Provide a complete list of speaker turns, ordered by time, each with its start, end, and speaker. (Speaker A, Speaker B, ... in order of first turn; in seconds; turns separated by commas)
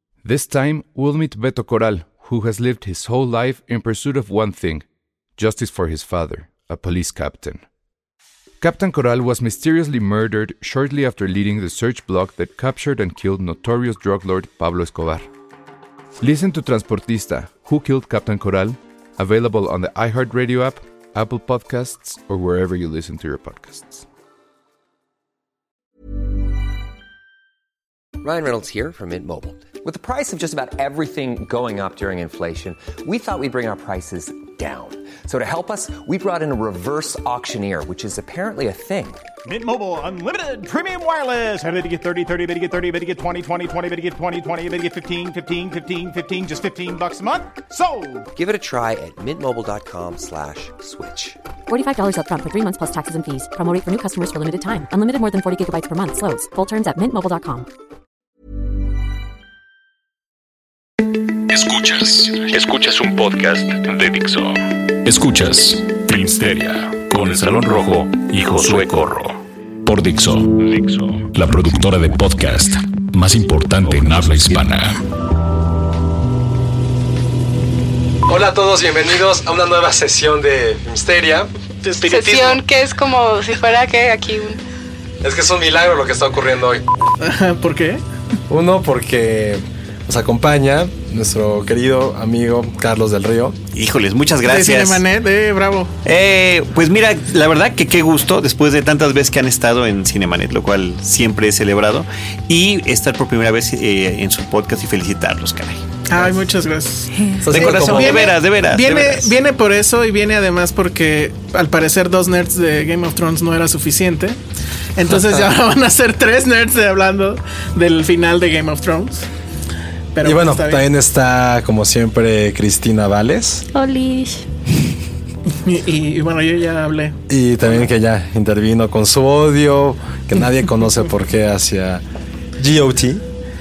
Speaker A: 0.2-4.8, Speaker A: 5.3-7.6, Speaker A: 8.6-15.3, Speaker A: 16.2-24.0, Speaker B: 28.2-39.2, Speaker C: 39.4-48.3, Speaker B: 48.3-51.4, Speaker D: 51.7-57.7, Speaker E: 61.5-75.0, Speaker F: 78.2-81.5, Speaker G: 81.8-82.6, Speaker H: 82.0-84.6, Speaker F: 85.2-86.8, Speaker G: 87.2-88.0, Speaker F: 88.5-93.6, Speaker I: 93.7-95.0, Speaker G: 94.4-95.9, Speaker I: 96.0-105.8, Speaker G: 106.1-114.4, Speaker F: 107.4-108.3, Speaker I: 107.5-109.3, Speaker G: 115.0-119.3, Speaker G: 120.1-120.8, Speaker F: 120.2-123.7, Speaker H: 123.7-124.4, Speaker G: 125.5-127.9, Speaker F: 127.3-132.0, Speaker F: 132.6-133.2